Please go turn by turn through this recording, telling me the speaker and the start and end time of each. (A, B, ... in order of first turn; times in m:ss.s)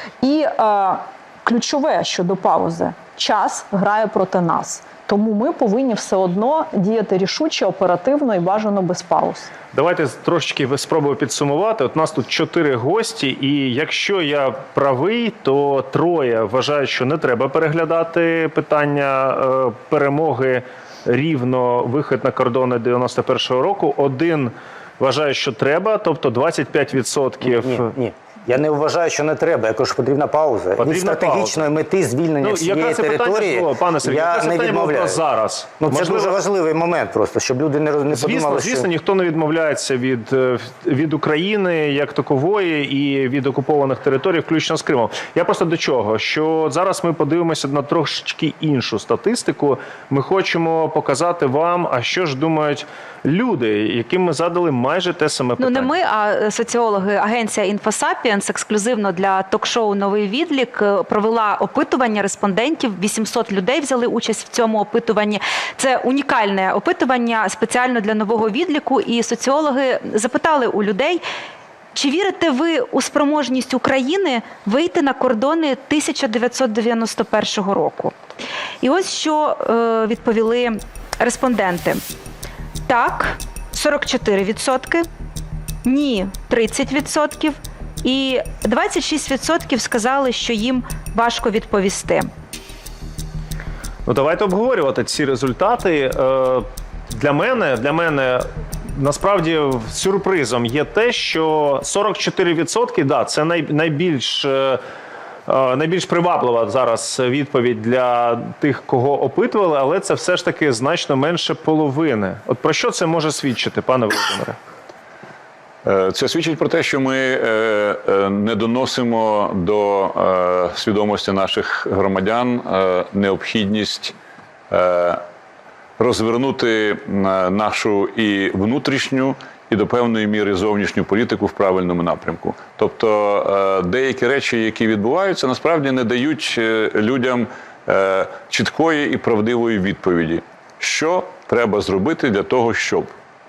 0:00.2-0:09.5 A
0:09.7-0:27.9 B
0:27.4-0:35.2 C
0:30.8-0:31.6 B
0:32.4-0:36.4 B
0:35.8-0:38.9 C
0:38.1-0:56.0 B
0:55.6-1:11.2 D
1:11.9-1:18.1 D
1:18.8-1:22.0 D
1:22.9-1:25.0 D
1:25.8-1:32.3 D
1:34.0-1:44.8 B
1:45.4-1:54.6 B
1:55.8-2:04.1 E
2:04.7-2:05.2 E
2:06.0-2:23.1 E